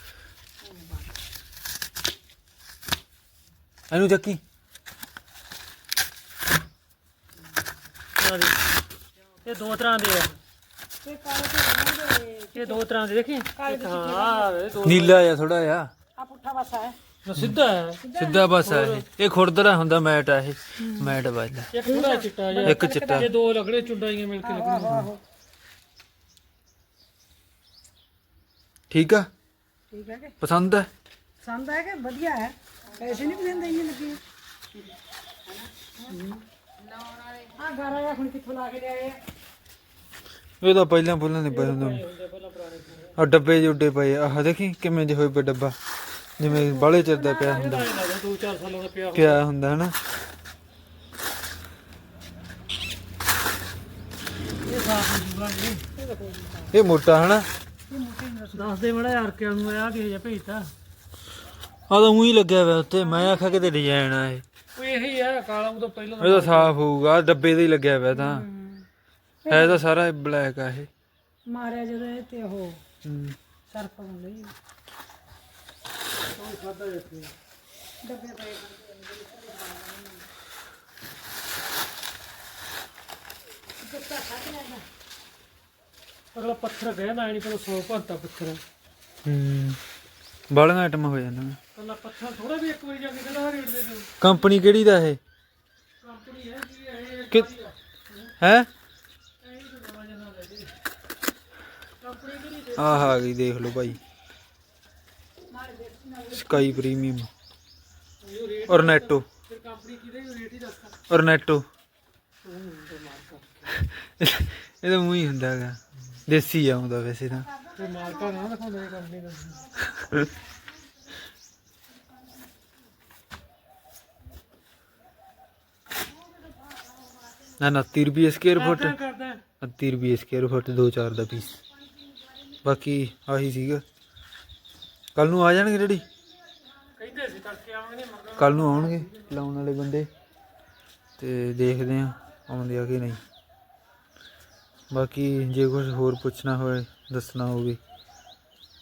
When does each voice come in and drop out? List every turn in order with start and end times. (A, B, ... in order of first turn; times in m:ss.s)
0:00.6-0:01.1 A
0:03.9-0:04.4 B
0:08.2-0:08.6 C
0:09.4-0:10.4 C
0:11.0-0:12.8 A
0:12.5-0:15.2 C
0:13.5-0:14.5 A
0:14.8-0:15.9 B
0:16.2-0:17.0 A
0:17.2-0:18.0 C
0:18.0-0:18.6 A
0:18.2-0:21.7 B
0:18.6-0:19.0 C
0:20.8-0:21.2 A
0:21.7-0:25.1 C
0:21.8-0:23.3 A
0:22.7-0:23.3 B
0:24.4-0:25.2 A
0:28.9-0:29.3 B
0:29.9-0:30.4 A
0:30.4-0:30.9 B
0:31.4-0:34.2 A
0:36.0-0:36.4 A
0:37.6-0:39.2 A
0:40.6-0:42.0 B
0:41.5-0:43.2 C
0:43.2-0:45.8 B
0:46.4-0:47.9 B
0:46.4-0:48.1 A
0:47.4-0:49.4 C
0:49.1-0:50.0 B
0:54.7-0:56.7 C
0:56.0-0:56.6 A
0:56.7-0:57.5 B
0:57.9-0:58.8 A
0:58.5-1:00.7 C
1:01.9-1:04.4 B
1:03.0-1:03.6 A
1:04.8-1:06.8 C
1:06.2-1:08.5 B
1:08.1-1:08.9 A
1:09.4-1:09.8 A
1:09.5-1:10.9 B
1:11.5-1:12.8 A
1:13.0-1:13.4 B
1:13.7-1:14.5 A
1:16.3-1:17.3 C
1:18.0-1:20.3 A
1:23.8-1:24.8 A
1:26.3-1:28.6 C
1:29.2-1:29.8 B
1:30.5-1:31.6 B
1:31.8-1:34.1 C
1:34.2-1:35.2 B
1:36.0-1:38.3 C
1:38.4-1:38.7 B
1:39.4-1:40.7 C
1:42.0-1:43.2 C
1:42.8-1:44.0 B
1:45.5-1:47.1 A
1:46.3-1:47.3 B
1:48.2-1:51.0 C
1:48.7-1:49.3 B
1:51.1-1:51.7 B
1:52.4-1:53.8 C
1:53.8-1:57.5 B
1:57.5-1:58.5 A
1:57.8-1:59.8 C
2:00.0-2:00.2 B
2:06.7-2:07.0 A
2:07.6-2:09.0 B
2:08.6-2:09.4 C
2:09.6-2:11.6 B
2:12.6-2:13.8 B
2:15.2-2:16.0 B
2:17.0-2:19.3 C
2:18.4-2:20.1 B
2:21.2-2:23.2 B
2:24.9-2:27.8 B